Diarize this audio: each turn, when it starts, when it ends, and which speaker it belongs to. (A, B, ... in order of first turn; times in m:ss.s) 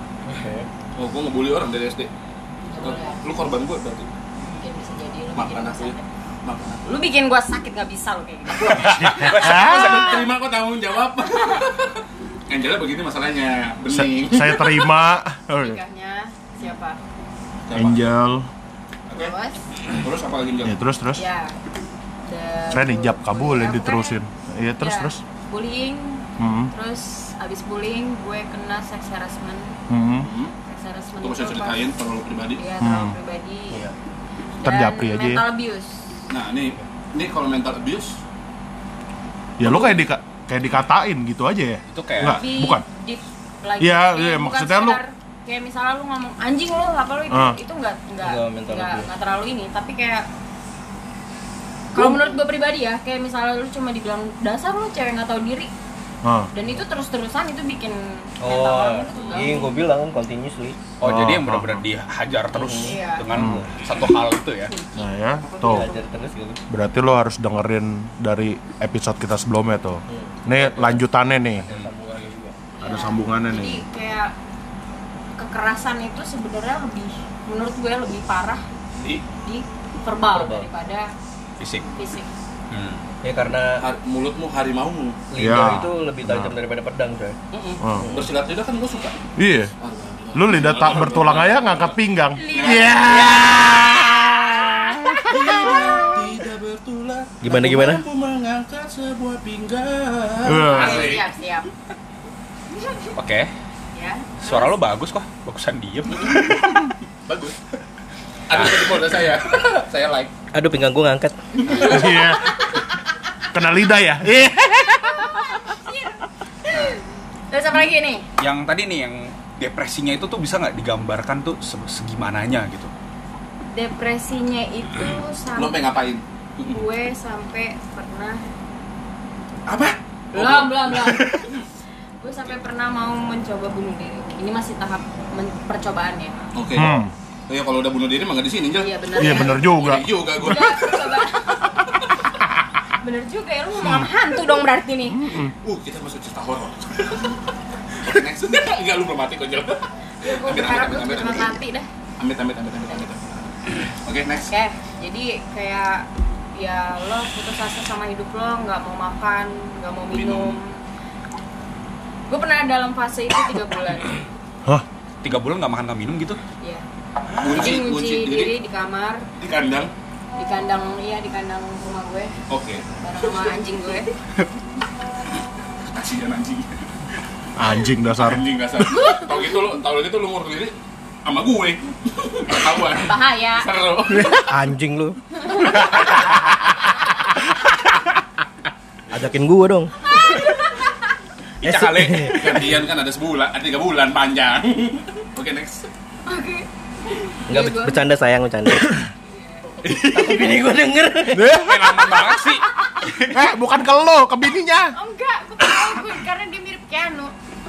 0:00.2-0:00.7 A
0:00.9-0:02.1 B
0:02.6-0:03.2 C
0:02.8-0:04.1 B
0:04.4-0:06.1 C
0:05.3-0:06.9 B
0:06.8-0:09.0 C
0:08.5-0:14.9 B
0:08.7-0:10.0 D
0:08.8-0:10.2 E
0:13.9-0:15.8 E
0:15.6-0:17.0 C
0:17.6-0:18.1 B
0:17.7-0:18.5 E
0:19.1-0:19.6 C
0:19.9-0:20.8 B
0:20.6-0:21.2 E
0:21.1-0:21.6 C
0:22.2-0:24.2 C
0:22.7-0:25.2 E
0:24.8-0:29.8 C
0:26.4-0:26.7 E
0:29.9-0:30.3 E
0:30.2-0:30.5 B
0:30.7-0:31.9 C
0:31.2-0:32.6 B
0:32.6-0:33.8 C
0:32.8-0:33.1 E
0:34.6-0:36.2 C
0:34.6-0:35.4 E
0:36.3-0:38.2 B
0:39.6-0:42.8 E
0:39.6-0:40.0 B
0:41.9-0:42.4 D
0:42.2-0:50.3 C
0:43.8-0:45.0 E
0:47.3-0:47.6 E
0:48.2-0:49.1 A
0:51.9-0:55.7 C
0:56.2-0:56.5 E
0:56.5-0:59.8 C
0:58.4-1:00.8 A
1:01.0-1:04.7 D
1:01.0-1:01.8 E
1:02.5-1:03.6 A
1:02.8-1:03.3 C
1:03.3-1:03.7 E
1:04.7-1:05.1 C
1:05.0-1:05.9 E
1:05.6-1:06.6 A
1:06.7-1:11.7 E
1:10.1-1:11.0 A
1:11.6-1:12.6 A
1:12.8-1:14.3 C
1:12.8-1:13.8 E
1:15.4-1:18.6 C
1:19.0-1:19.2 B
1:19.4-1:21.1 C
1:20.3-1:20.7 A
1:21.6-1:21.9 D
1:21.9-1:22.3 C
1:22.7-1:23.0 D
1:23.2-1:23.8 A
1:23.8-1:25.2 B
1:25.3-1:27.4 A
1:25.4-1:26.6 E
1:27.5-1:29.2 B
1:27.8-1:28.1 E
1:28.0-1:28.3 A
1:29.4-1:29.7 E
1:29.8-1:33.6 B
1:30.3-1:35.9 E
1:32.4-1:35.6 C
1:35.3-1:41.3 B
1:37.4-1:38.0 A
1:40.4-1:41.2 E
1:40.7-1:41.7 C
1:43.1-1:43.5 D
1:43.9-1:44.6 C
1:44.4-1:46.9 D
1:47.3-1:47.6 B
1:48.5-1:50.3 B
1:48.5-1:49.0 D
1:50.5-1:51.4 A
1:51.6-1:52.4 B
1:51.7-1:52.5 E
1:53.5-1:55.4 E
1:55.2-1:58.3 C
1:56.7-1:57.0 D
1:58.4-2:02.9 D
2:03.7-2:05.9 C
2:05.5-2:06.8 B
2:06.6-2:08.4 C
2:09.7-2:11.6 B
2:10.3-2:11.4 C
2:12.2-2:16.4 C
2:16.5-2:21.2 B
2:16.7-2:17.1 E
2:18.8-2:21.8 C
2:19.1-2:20.0 E
2:23.0-2:25.4 C
2:25.1-2:25.5 E
2:25.5-2:27.4 B
2:28.0-2:31.6 B
2:30.2-2:31.9 C
2:32.2-2:34.5 B
2:34.5-2:40.8 C
2:40.1-2:40.6 B
2:42.3-2:44.2 C
2:45.2-2:46.4 D
2:47.4-2:48.6 B
2:47.4-2:49.2 C
2:49.4-2:49.9 B
2:50.4-2:52.3 C
2:52.5-2:53.4 B
2:53.0-2:54.1 C
2:55.9-2:56.8 B
2:57.6-2:58.4 E
2:58.1-3:04.6 B
3:03.0-3:04.2 C
3:04.2-3:05.2 A
3:05.4-3:05.8 C
3:05.6-3:06.3 B
3:09.1-3:09.9 A
3:10.1-3:11.0 C
3:11.6-3:12.8 D
3:11.6-3:12.5 A
3:12.1-3:15.9 B
3:16.2-3:18.0 C
3:17.5-3:19.1 A
3:19.2-3:19.7 C
3:19.8-3:20.6 D
3:20.0-3:21.6 A
3:21.3-3:22.0 E
3:21.5-3:23.4 D
3:21.7-3:22.6 B
3:23.3-3:25.0 E
3:24.9-3:27.3 C